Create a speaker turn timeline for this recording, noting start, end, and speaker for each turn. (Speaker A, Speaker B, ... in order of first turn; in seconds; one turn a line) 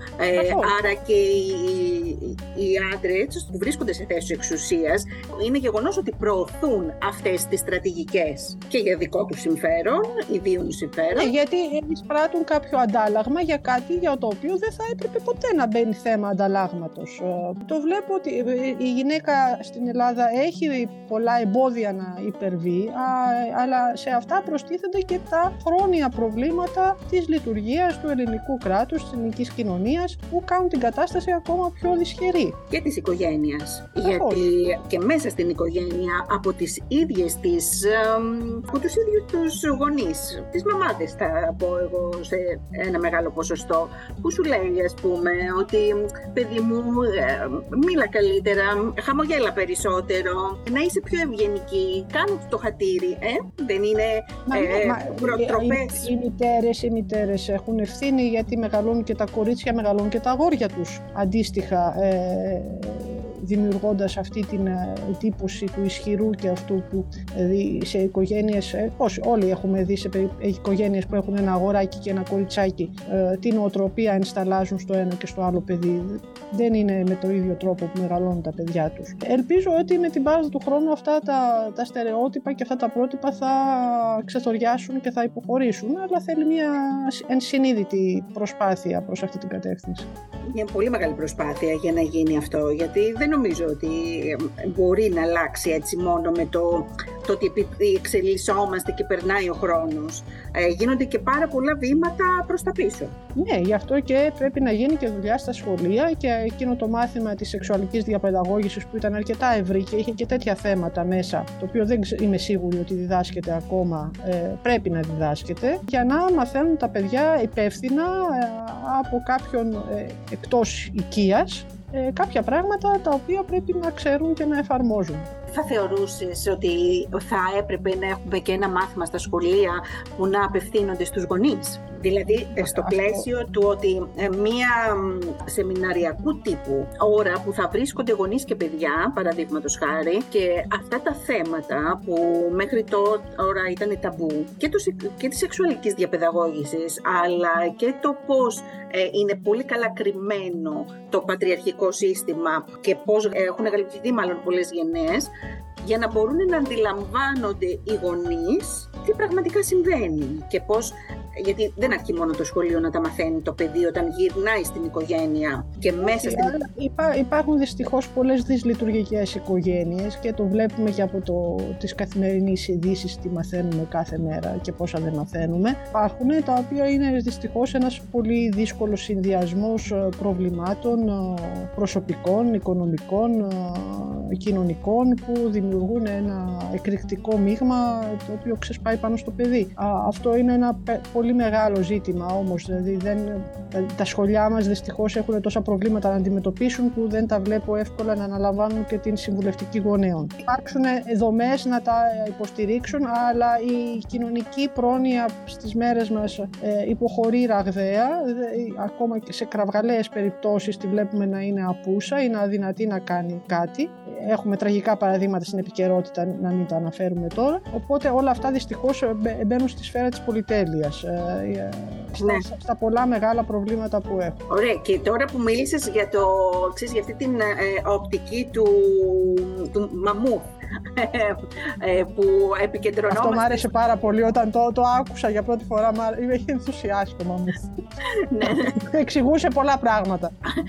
Speaker A: 0.2-11.3
Speaker B: 0.3-0.7
Speaker B: 11.1-32.6
Speaker A: 32.7-56.1
Speaker B: 34.0-34.4
Speaker B: 54.5-90.1
Speaker A: 90.5-103.1
Speaker B: 103.4-125.3
Speaker A: 125.5-155.3
Speaker B: 132.6-133.3
Speaker A: 155.8-166.6
Speaker B: 166.0-224.4
Speaker A: 224.5-233.7
Speaker B: 233.1-237.7
Speaker A: 238.3-238.7
Speaker B: 238.4-240.3